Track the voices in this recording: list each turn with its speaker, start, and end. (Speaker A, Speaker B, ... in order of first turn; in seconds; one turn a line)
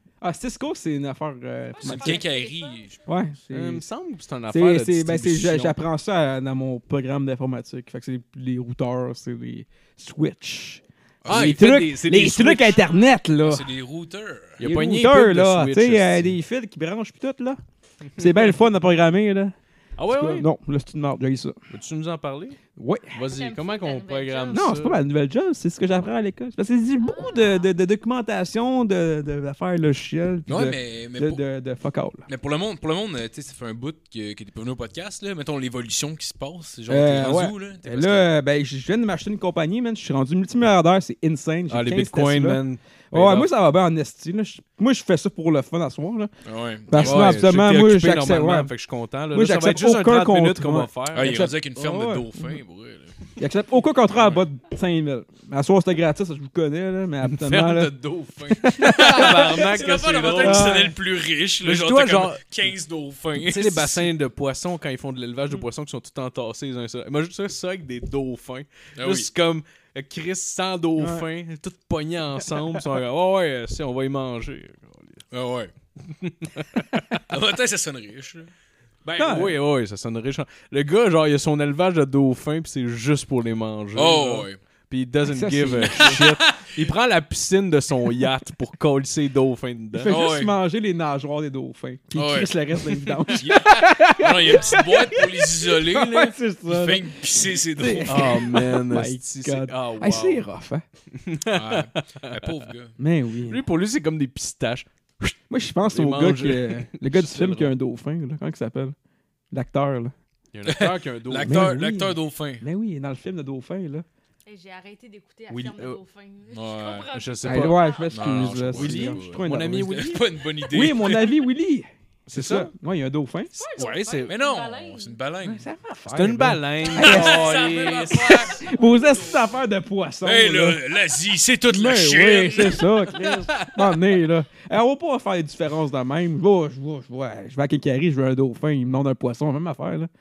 Speaker A: 0.2-2.2
Speaker B: 1.7-3.1
Speaker C: 1.8-3.0
Speaker A: 3.1-3.9
Speaker D: 3.5-5.8
Speaker A: 4.5-13.7
Speaker C: 11.2-11.7
Speaker D: 11.2-12.8
Speaker B: 12.7-13.1
Speaker C: 13.4-14.6
Speaker D: 14.6-16.4
Speaker A: 14.6-17.6
Speaker A: 18.2-19.6
Speaker D: 18.2-18.5
Speaker D: 20.0-20.5
Speaker A: 20.1-21.6
Speaker D: 21.7-22.6
Speaker A: 22.8-23.2
Speaker D: 23.1-25.0
Speaker B: 23.3-24.7
Speaker A: 24.5-32.3
Speaker B: 27.0-27.7
Speaker C: 30.5-31.4
Speaker C: 32.3-38.3
Speaker A: 36.9-46.3
Speaker D: 41.7-43.5
Speaker C: 46.5-47.5
Speaker A: 46.9-48.7
Speaker D: 47.0-51.5
Speaker A: 49.3-52.6
Speaker C: 51.1-53.2
Speaker A: 53.4-58.0
Speaker C: 54.1-54.4
Speaker D: 57.2-60.9
Speaker A: 58.5-59.6
Speaker C: 58.8-64.1
Speaker A: 60.4-60.9
Speaker D: 61.6-62.4
Speaker D: 63.4-75.2
Speaker C: 69.0-69.3
Speaker A: 71.0-71.3
Speaker C: 75.3-75.7
Speaker D: 76.0-77.2
Speaker C: 77.3-78.5
Speaker D: 79.1-90.2
Speaker A: 79.2-79.6
Speaker C: 84.0-84.6
Speaker A: 85.3-86.2
Speaker C: 85.8-86.8
Speaker A: 89.9-100.8
Speaker C: 90.1-90.5
Speaker C: 92.2-92.5
Speaker C: 93.4-98.5
Speaker B: 94.5-94.8
Speaker D: 98.1-100.4
Speaker D: 101.1-102.5
Speaker C: 101.5-103.0
Speaker A: 103.0-103.6
Speaker D: 103.5-105.4
Speaker A: 105.5-109.0
Speaker D: 105.9-107.7
Speaker A: 109.5-110.1
Speaker D: 110.5-111.7
Speaker C: 110.7-112.6
Speaker A: 111.4-114.1
Speaker B: 114.5-118.2
Speaker D: 115.5-116.0
Speaker C: 116.5-117.1
Speaker D: 117.1-120.2
Speaker A: 117.4-120.0
Speaker C: 118.1-121.4
Speaker A: 120.7-123.5
Speaker D: 122.3-122.7
Speaker B: 123.6-125.2
Speaker D: 123.8-124.3
Speaker C: 124.1-125.7
Speaker A: 125.4-127.6
Speaker D: 126.1-128.6
Speaker C: 126.8-128.8
Speaker A: 128.5-130.8
Speaker C: 130.2-133.0
Speaker A: 131.7-140.1
Speaker D: 133.1-133.9